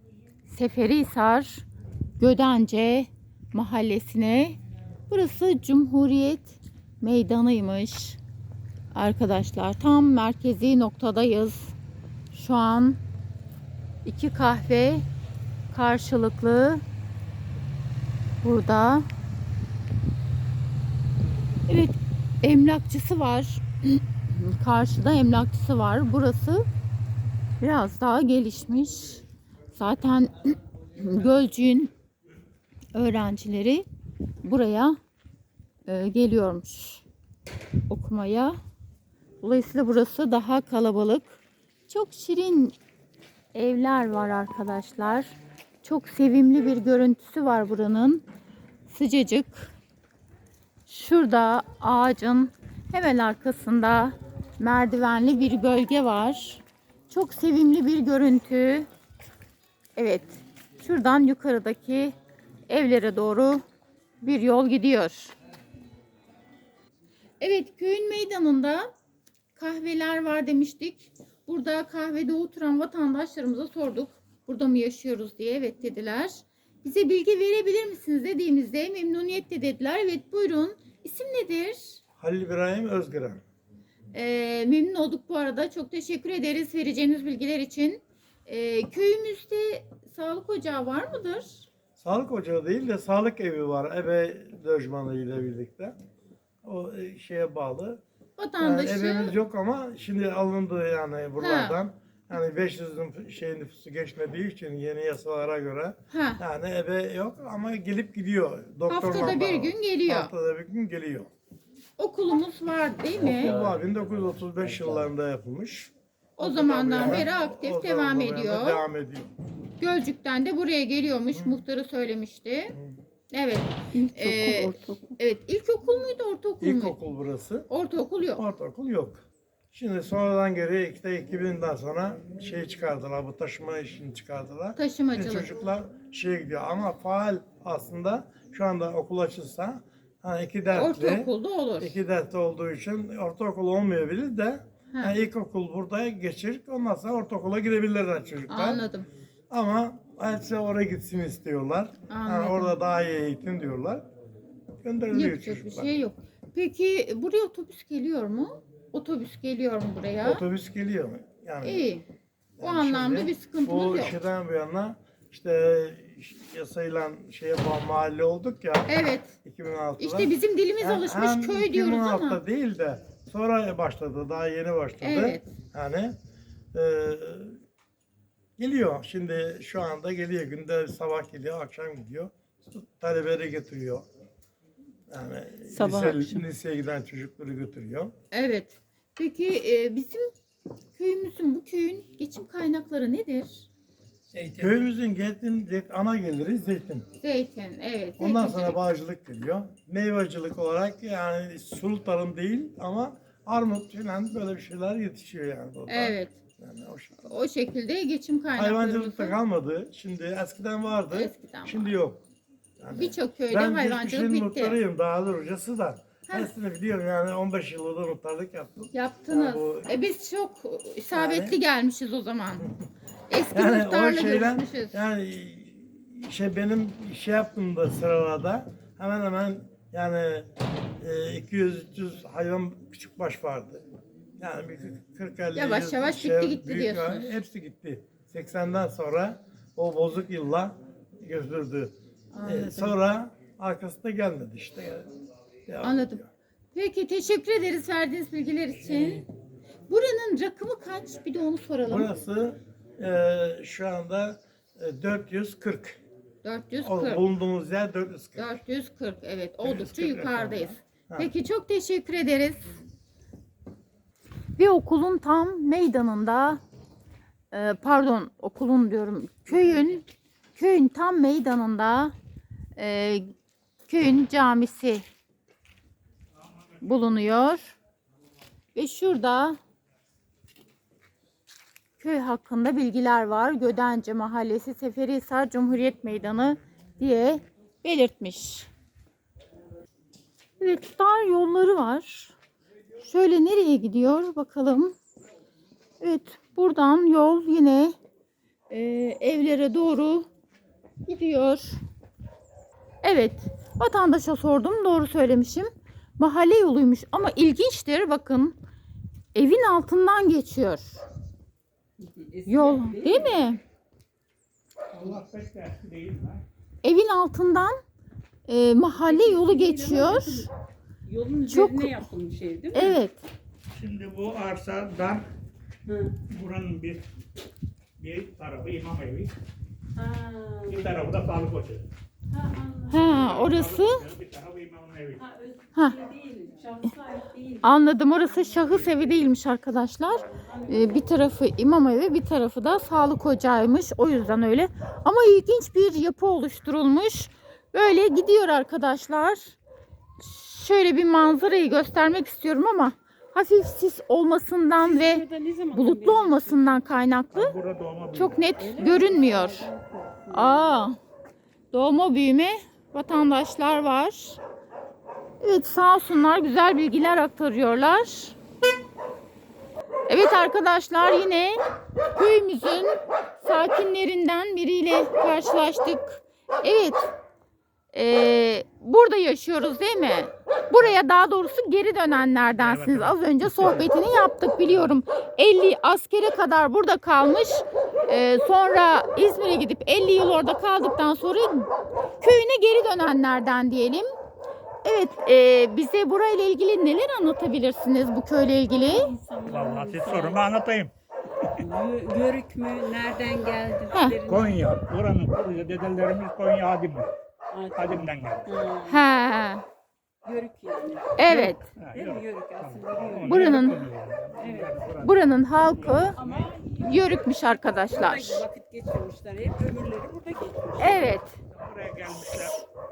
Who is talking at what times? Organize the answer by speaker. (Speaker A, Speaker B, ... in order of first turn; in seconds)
Speaker A: 0.5-1.6, 2.2-4.6, 5.1-8.2, 8.9-11.7, 12.3-13.0, 14.0-15.1, 15.7-16.8, 18.4-19.1, 21.7-26.6, 27.6-29.2, 29.7-31.9, 32.9-33.8, 34.4-35.0, 35.9-37.0, 37.9-38.6, 39.4-41.4, 41.9-42.7, 43.5-45.3, 45.8-48.2, 48.9-49.7, 50.9-58.9, 60.0-62.1, 62.7-63.6, 64.2-65.3, 67.4-68.9, 69.5-82.0, 84.1-91.7, 98.4-99.3, 101.4-101.8, 106.1-106.4, 108.9-110.3, 112.0-113.5, 116.4-118.8, 119.8-122.8, 123.3-127.0, 127.7-128.4, 134.8-135.6, 140.7-141.9, 144.9-145.2, 148.5-149.1, 152.1-152.7, 155.1-160.4, 161.6-162.1, 162.6-164.2, 168.9-169.3, 170.0-172.4, 175.0-175.5, 188.3-190.3, 190.9-193.7, 197.2-198.8, 205.9-206.3, 207.2-209.3, 211.1-211.8, 212.9-214.8, 218.9-222.8, 223.3-225.0, 235.5-237.3, 242.3-242.9, 245.8-246.2, 246.7-249.2, 249.9-252.1, 256.4-257.2, 258.4-262.6, 264.6-266.6, 267.5-270.0, 270.5-272.1, 272.8-273.3, 273.9-275.0, 276.8-277.8, 278.7-279.6, 282.0-288.7, 290.6-292.3, 293.0-294.9, 296.0-297.9, 298.7-300.3, 301.1-301.8, 303.0-308.6, 309.3-310.9, 312.5-313.6, 316.8-317.8, 318.5-320.5, 321.5-322.0, 322.7-323.2, 332.9-334.0, 337.6-349.6, 350.2-357.5, 358.1-359.7, 360.3-361.0, 361.7-364.4, 365.4-368.4, 370.1-371.6, 372.1-377.1, 377.9-394.1, 394.8-399.1, 403.9-404.2, 408.9-409.6, 411.2-411.6, 413.2-413.8, 415.0-416.1, 416.8-418.4, 420.8-421.3
Speaker B: 82.2-83.4, 92.0-95.9, 96.6-98.0, 98.6-111.3, 113.2-119.3, 121.3-121.6, 126.6-127.7, 128.3-148.8, 149.5-154.1, 154.8-155.9, 160.2-161.8, 162.6-168.9, 169.4-176.2, 176.7-177.6, 178.6-184.1, 185.1-188.1, 194.6-197.1, 198.2-207.2, 208.6-212.2, 212.8-219.9, 221.1-221.6, 223.5-233.8, 234.4-245.1, 245.7-246.3, 251.8-256.0, 256.8-258.6
Speaker C: 123.9-125.2, 185.7-186.4, 312.0-313.4, 319.0-320.5, 321.1-323.0, 325.9-326.1, 329.9-330.9, 332.3-333.1, 335.2-338.8, 340.2-341.1, 354.8-356.8, 358.6-360.8, 398.7-400.4, 401.6-404.6, 407.5-409.0, 410.2-411.2, 411.9-413.8, 414.3-414.7, 416.1-421.1
Speaker D: 194.3-194.7, 259.6-260.7, 276.5-277.1, 314.9-316.4, 323.7-325.2, 326.3-327.1, 328.0-329.3, 330.7-331.8, 333.0-335.2, 357.3-358.4, 382.5-383.9, 399.4-401.6, 404.2-407.1, 407.8-408.5, 411.2-416.5, 421.5-422.6